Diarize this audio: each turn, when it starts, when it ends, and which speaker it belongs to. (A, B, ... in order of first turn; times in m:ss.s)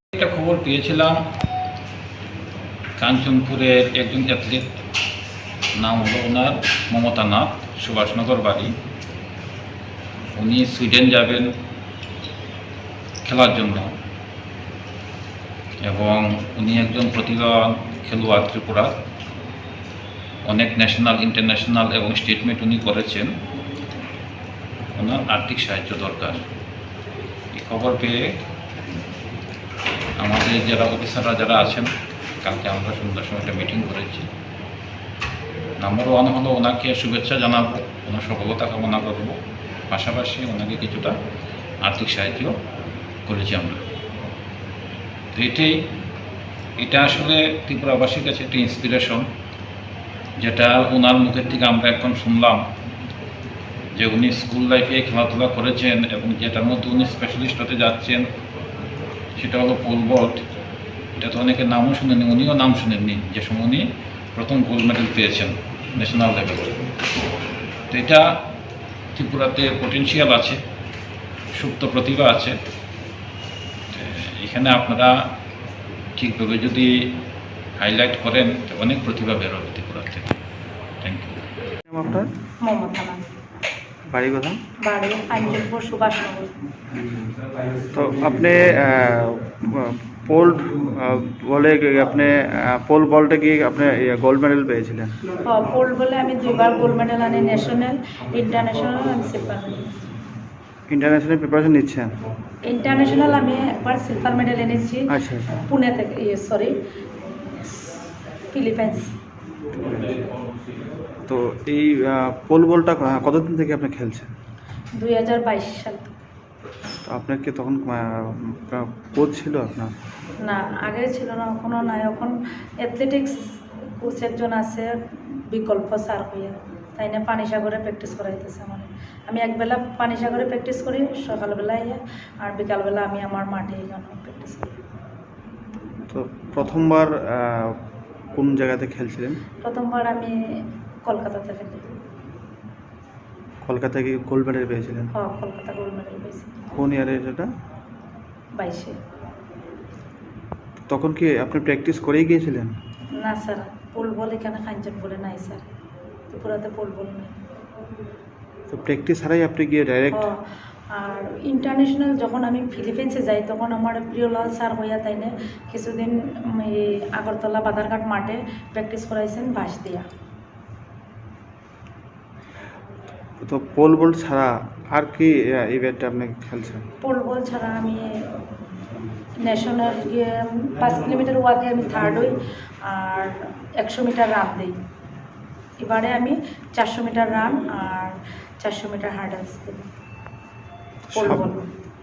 0:00.1-0:01.2 A
0:03.0-0:04.7 A
0:05.8-0:08.7 A
0:10.3-0:11.5 A
0:13.2-0:13.9 A
0:15.8-0:18.9 A
0:20.4-0:23.3 A
0:24.9-0:26.4 A
0:27.5-0:28.4 A
0:30.2-0:31.9 A
0:32.4-0:34.3 A
0:35.8-0:39.4 A
0:39.9-0:41.1 A
0:41.8-0:42.6 A
0:43.3-0:43.8 A
0:45.3-0:45.8 A
0:46.8-0:49.2 A
0:50.4-0:52.6 A
0:54.0-0:58.2 A
0:59.4-1:00.4 A
1:01.2-1:03.8 A
1:04.4-1:06.8 A
1:07.9-1:08.3 A
1:09.1-1:10.6 A
1:11.6-1:12.6 A
1:13.9-1:15.1 A
1:16.2-1:16.9 A
1:17.8-1:20.4 A
1:21.0-1:21.4 A
1:21.9-1:22.3 B
1:22.6-1:23.2 C
1:24.1-1:24.6 B
1:24.8-1:26.5 C
1:27.9-1:35.2 B
1:35.5-1:39.9 C
1:40.9-1:42.1 B
1:42.7-1:45.1 C
1:45.1-1:45.5 B
1:45.7-1:46.7 C
1:48.5-1:49.1 C
1:49.8-1:50.2 B
1:51.3-1:54.3 B
1:55.0-1:56.1 C
1:57.0-1:59.9 B
2:00.4-2:03.4 C
2:04.0-2:14.7 C
2:16.1-2:17.8 B
2:18.3-2:19.4 B
2:19.6-2:21.9 C
2:23.6-2:25.1 B
2:25.1-2:26.6 C
2:26.7-2:27.5 B
2:28.6-2:28.9 C
2:30.9-2:32.7 B
2:33.2-2:35.7 C
2:36.3-2:37.4 C
2:38.7-2:40.3 B
2:40.9-2:50.0 C
2:53.4-2:56.8 B
2:57.0-2:58.5 C
2:59.4-3:04.8 C
3:05.8-3:09.8 C
3:11.1-3:11.4 B
3:11.1-3:11.7 C